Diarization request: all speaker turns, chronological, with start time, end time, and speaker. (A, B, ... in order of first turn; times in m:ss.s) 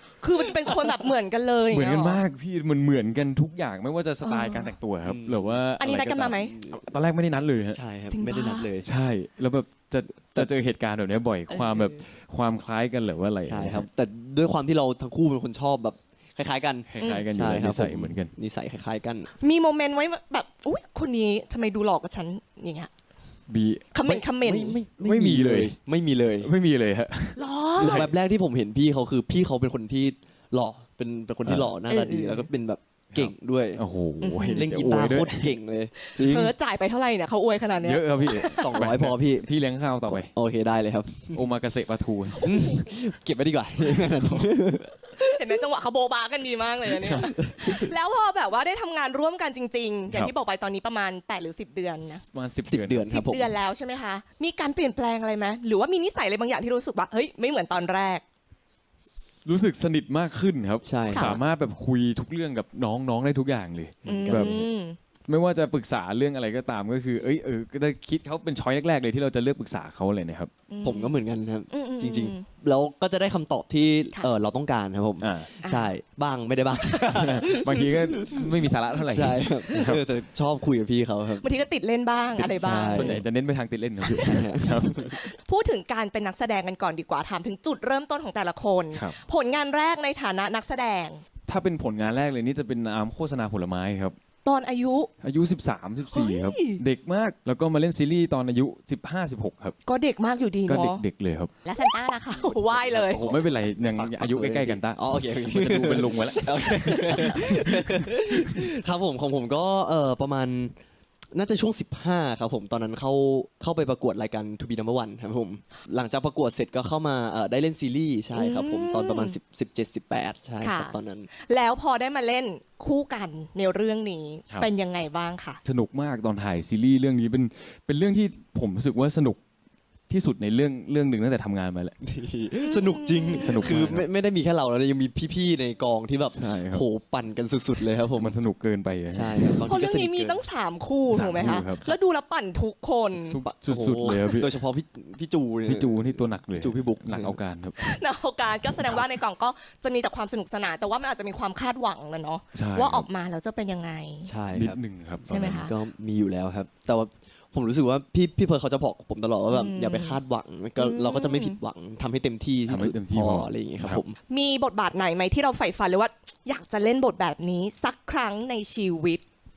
0:00.2-0:02.2 A
0:01.7-0:07.8 B
0:04.2-0:04.7 A
0:05.0-0:05.6 C
0:05.8-0:06.5 A
0:06.4-0:06.8 C
0:07.7-0:08.9 C
0:08.1-0:08.7 A
0:08.9-0:13.9 B
0:11.5-0:12.0 A
0:13.4-0:19.3 C
0:16.9-0:18.3 B
0:19.4-0:22.9 A
0:23.5-0:24.2 B
0:23.9-0:24.8 A
0:24.1-0:26.5 C
0:25.0-0:25.8 B
0:26.4-0:28.1 B
0:27.4-0:28.0 A
0:27.8-0:33.8 C
0:31.5-0:31.7 B
0:31.9-0:32.5 A
0:33.1-0:35.6 B
0:34.2-0:34.6 A
0:34.5-0:36.5 C
0:36.2-0:38.7 A
0:37.8-0:40.3 B
0:38.4-0:39.5 C
0:40.1-0:41.4 C
0:41.3-0:42.5 B
0:42.4-0:45.4 C
0:45.2-0:52.2 A
0:47.2-0:47.9 C
0:52.1-0:53.1 B
0:52.7-0:53.5 C
0:53.1-0:58.2 A
0:59.3-1:04.6 B
1:00.8-1:01.4 C
1:01.1-1:01.4 A
1:04.0-1:04.7 C
1:04.1-1:05.0 A
1:05.3-1:10.5 B
1:10.7-1:11.2 A
1:10.8-1:21.5 C
1:11.7-1:12.5 A
1:15.2-1:15.5 B
1:15.6-1:15.9 A
1:17.1-1:20.0 B
1:21.4-1:23.2 A
1:22.4-1:23.2 C
1:22.9-1:25.2 B
1:24.1-1:25.2 C
1:25.4-1:31.2 A
1:31.5-1:34.2 B
1:34.4-1:35.1 A
1:35.2-1:39.8 B
1:36.1-1:36.8 A
1:39.9-1:41.0 A
1:40.7-1:41.5 B
1:41.6-1:43.2 A
1:42.4-1:50.8 C
1:42.9-1:48.1 B
1:51.3-2:01.3 C
1:58.3-1:59.4 A
2:00.6-2:05.6 A
2:05.6-2:09.4 B
2:10.1-2:12.0 B
2:12.0-2:18.3 C
2:12.6-2:13.7 A
2:13.4-2:14.1 B
2:16.3-2:16.9 B
2:18.2-2:19.6 B
2:19.1-2:20.4 C
2:19.7-2:23.4 A
2:21.1-2:21.8 B
2:21.5-2:22.0 C
2:23.3-2:24.6 B
2:23.4-2:27.4 C
2:25.7-2:27.8 B
2:27.8-2:34.3 A
2:32.5-2:33.1 B
2:34.2-2:34.8 C
2:34.5-2:35.6 B
2:35.3-2:35.7 A
2:35.3-2:44.2 C
2:39.5-2:40.2 A
2:40.8-2:41.6 A
2:42.7-2:44.0 B
2:44.3-2:49.2 A